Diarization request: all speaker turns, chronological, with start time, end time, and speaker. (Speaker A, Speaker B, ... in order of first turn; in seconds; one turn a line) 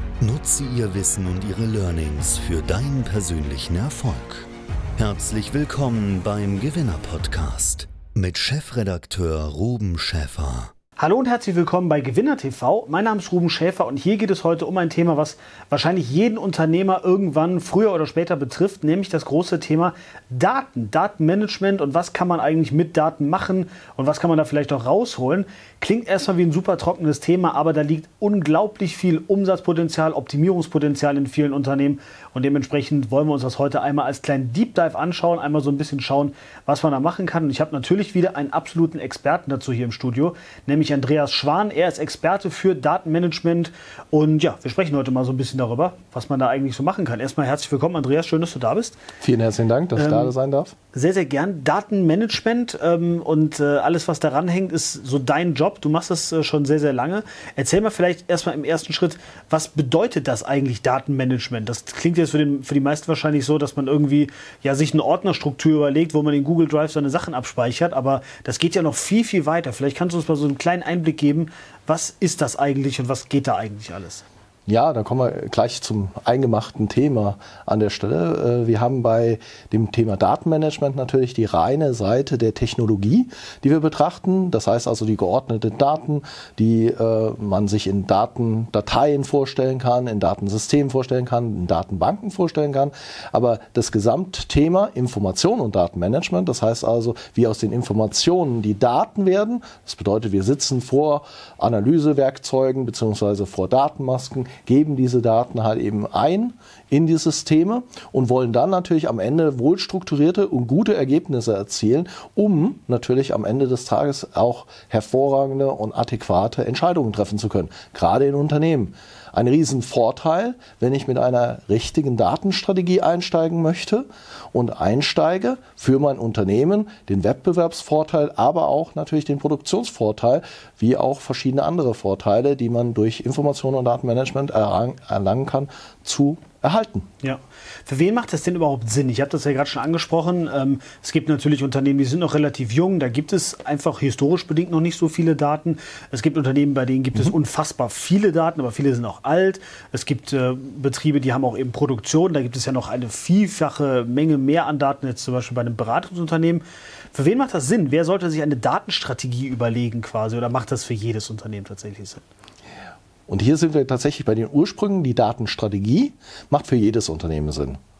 Speaker A: 0.2-10.7
Speaker B: 11.0-49.0
Speaker C: 49.2-50.7
Speaker B: 50.0-50.3
Speaker B: 50.9-74.2
Speaker C: 74.7-137.1
Speaker B: 137.2-162.2
Speaker C: 163.3-167.8